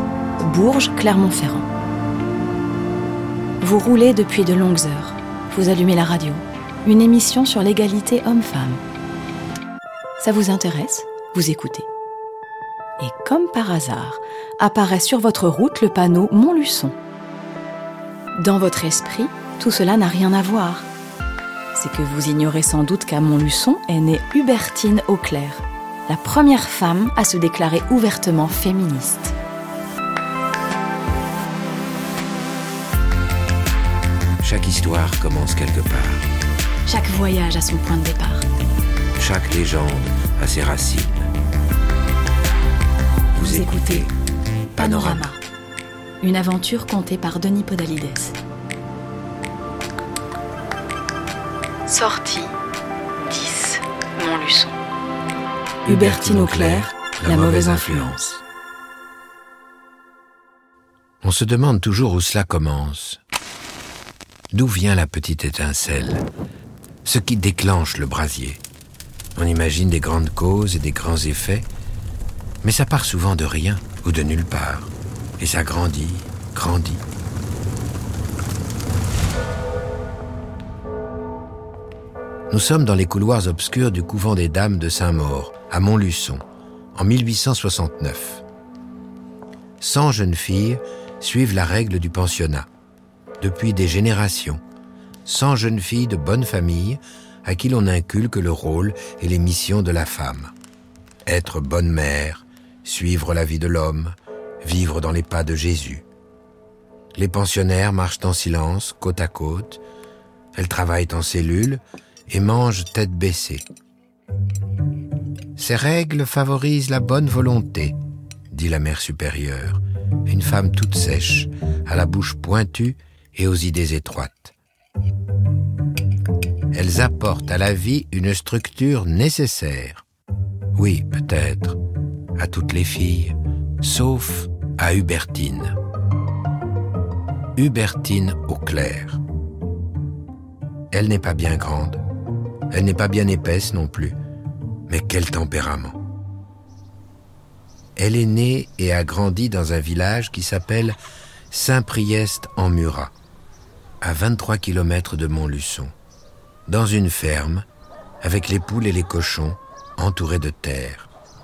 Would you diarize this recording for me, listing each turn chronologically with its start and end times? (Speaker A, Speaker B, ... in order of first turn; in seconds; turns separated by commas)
Speaker A: 0.4-1.7, Speaker A: 3.6-8.8, Speaker A: 10.2-11.9, Speaker A: 13.0-16.9, Speaker A: 18.4-20.9, Speaker A: 21.7-29.4, Speaker B: 34.4-36.3, Speaker A: 36.9-38.5, Speaker B: 39.2-41.3, Speaker B: 43.3-44.1, Speaker A: 43.4-44.1, Speaker B: 44.8-45.3, Speaker A: 44.8-45.4, Speaker A: 46.2-48.4, Speaker A: 51.9-52.5, Speaker A: 53.2-54.8, Speaker B: 55.9-58.2, Speaker A: 55.9-58.4, Speaker B: 61.2-63.2, Speaker B: 64.5-66.2, Speaker B: 67.0-68.6, Speaker B: 69.4-71.7, Speaker B: 72.6-77.0, Speaker B: 82.5-86.4, Speaker B: 86.9-88.4, Speaker B: 89.8-92.7, Speaker B: 93.4-94.6, Speaker B: 95.2-100.5, Speaker B: 101.3-106.0, Speaker B: 107.2-109.8, Speaker B: 110.5-113.7, Speaker B: 115.6-118.0, Speaker B: 118.5-124.5, Speaker B: 126.7-130.0, Speaker B: 130.8-131.8, Speaker B: 132.4-135.8, Speaker B: 137.6-139.2, Speaker B: 140.9-142.0, Speaker B: 142.7-144.2, Speaker B: 144.9-146.0, Speaker B: 148.0-151.0, Speaker B: 151.5-153.1, Speaker B: 154.0-155.9, Speaker B: 156.7-157.7, Speaker B: 158.2-161.1